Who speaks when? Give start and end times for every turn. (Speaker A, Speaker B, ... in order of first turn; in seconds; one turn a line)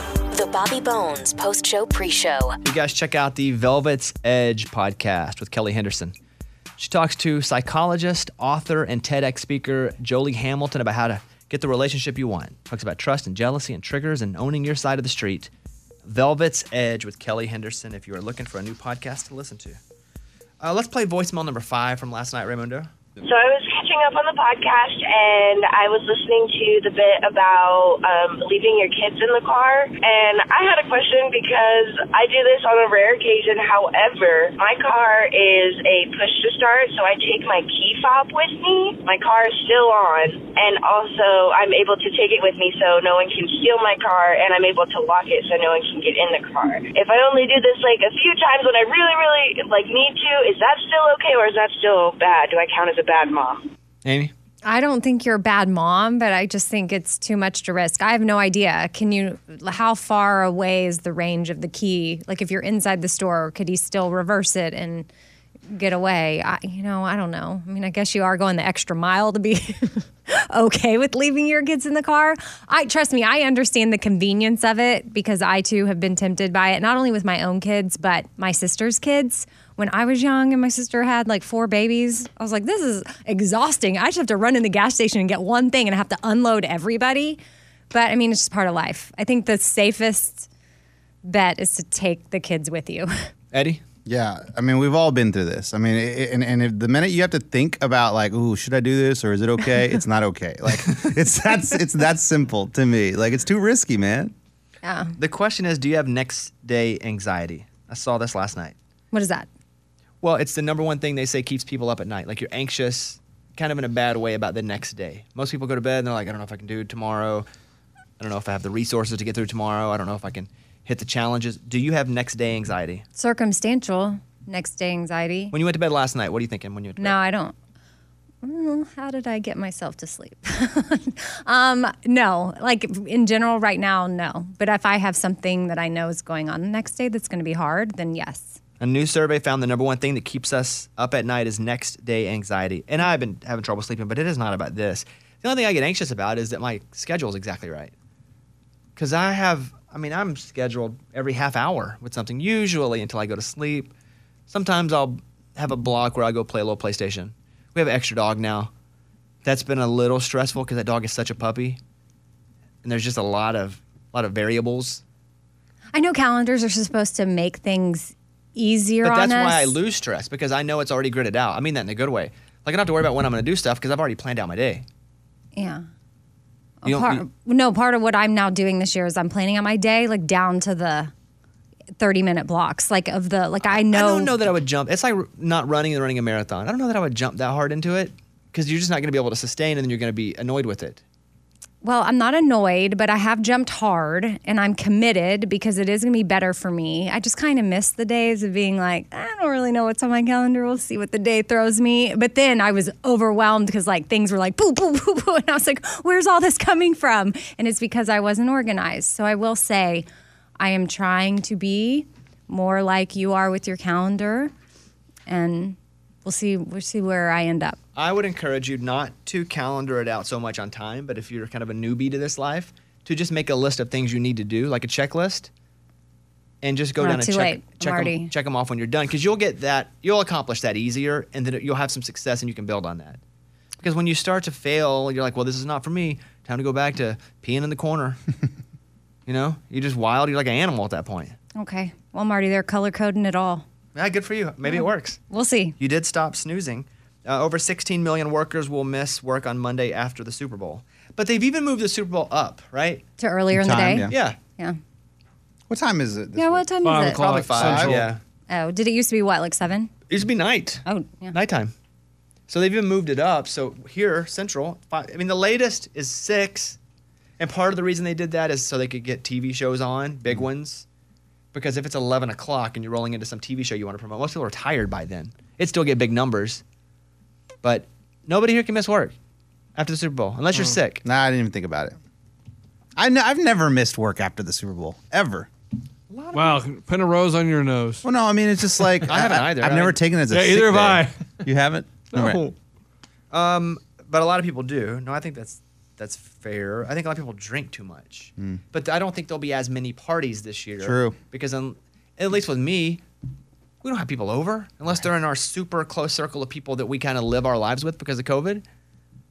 Speaker A: 0.3-2.6
Speaker B: 2.6-6.2
Speaker B: 6.8-15.5
Speaker B: 16.1-19.8
Speaker B: 20.6-22.9
Speaker C: 23.2-53.7
Speaker B: 54.0-54.3
Speaker D: 54.6-65.1
Speaker D: 65.7-87.4
Speaker D: 87.9-90.5
Speaker D: 91.2-93.1
Speaker B: 93.5-93.8
Speaker E: 94.0-104.3
Speaker D: 104.8-105.2
Speaker B: 105.2-108.8
Speaker D: 109.1-109.5
Speaker B: 110.2-117.5
Speaker B: 118.2-123.0
Speaker D: 123.2-125.5
Speaker B: 125.5-127.2
Speaker D: 127.0-127.5
Speaker D: 128.4-138.6
Speaker B: 138.8-147.9
Speaker B: 149.0-153.9
Speaker B: 154.5-158.7
Speaker B: 159.4-161.8
Speaker B: 162.8-165.0
Speaker D: 165.9-169.8
Speaker B: 169.0-174.8
Speaker D: 175.6-175.8
Speaker D: 176.8-181.1
Speaker B: 176.9-177.2
Speaker D: 182.0-184.3
Speaker B: 183.7-191.0
Speaker D: 191.8-210.1
Speaker D: 210.6-214.5
Speaker D: 215.3-217.8
Speaker B: 217.9-225.5
Speaker B: 226.6-233.2
Speaker D: 227.0-228.3
Speaker B: 233.8-238.2
Speaker B: 239.3-241.4
Speaker D: 241.6-243.6
Speaker B: 243.9-245.2
Speaker D: 244.7-245.8
Speaker B: 245.8-253.0
Speaker D: 253.2-254.8
Speaker E: 253.5-254.2
Speaker B: 254.1-254.4
Speaker E: 255.7-256.7
Speaker D: 256.4-257.2
Speaker F: 256.8-258.1
Speaker B: 257.1-258.2
Speaker E: 257.5-258.0
Speaker D: 258.5-259.9
Speaker B: 260.1-261.7
Speaker D: 260.9-261.4
Speaker B: 262.5-266.8
Speaker B: 267.4-270.9
Speaker B: 271.5-276.6
Speaker B: 277.6-279.1
Speaker B: 279.8-281.0
Speaker E: 281.0-282.0
Speaker E: 283.0-285.5
Speaker B: 286.1-286.6
Speaker F: 286.3-288.0
Speaker E: 288.0-292.4
Speaker B: 289.1-290.0
Speaker F: 290.3-291.1
Speaker F: 292.1-292.5
Speaker B: 293.3-303.0
Speaker E: 300.8-301.1
Speaker B: 303.8-308.6